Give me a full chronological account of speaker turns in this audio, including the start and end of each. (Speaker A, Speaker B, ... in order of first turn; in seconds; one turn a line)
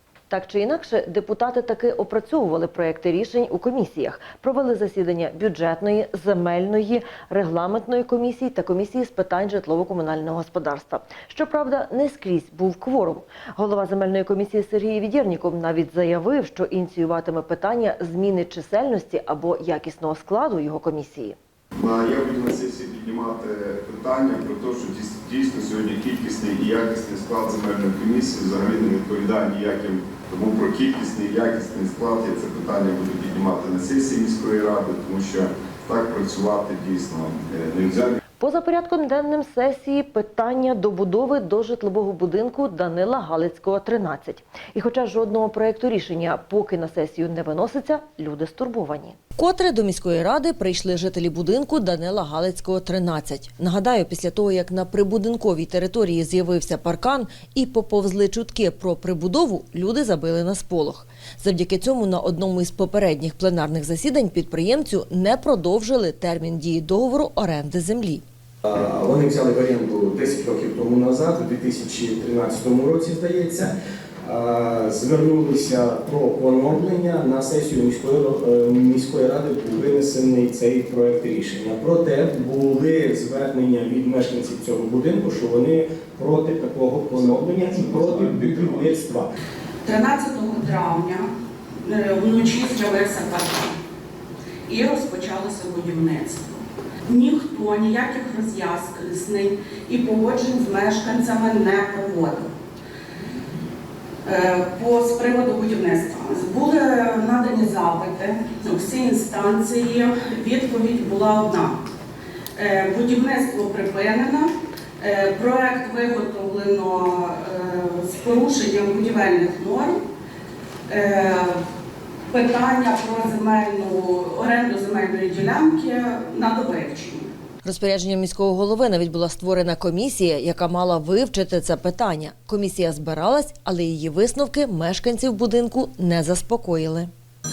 Speaker A: 0.3-21.4
Speaker B: 21.8-38.2
Speaker A: 38.4-68.2
Speaker C: 68.6-73.7
Speaker C: 74.2-89.3
Speaker D: 89.8-91.3
Speaker D: 91.8-93.8
Speaker D: 94.7-102.5
Speaker D: 104.2-111.8
Speaker D: 112.6-120.0
Speaker D: 120.9-121.6
Speaker D: 122.3-127.3
Speaker A: 127.6-137.1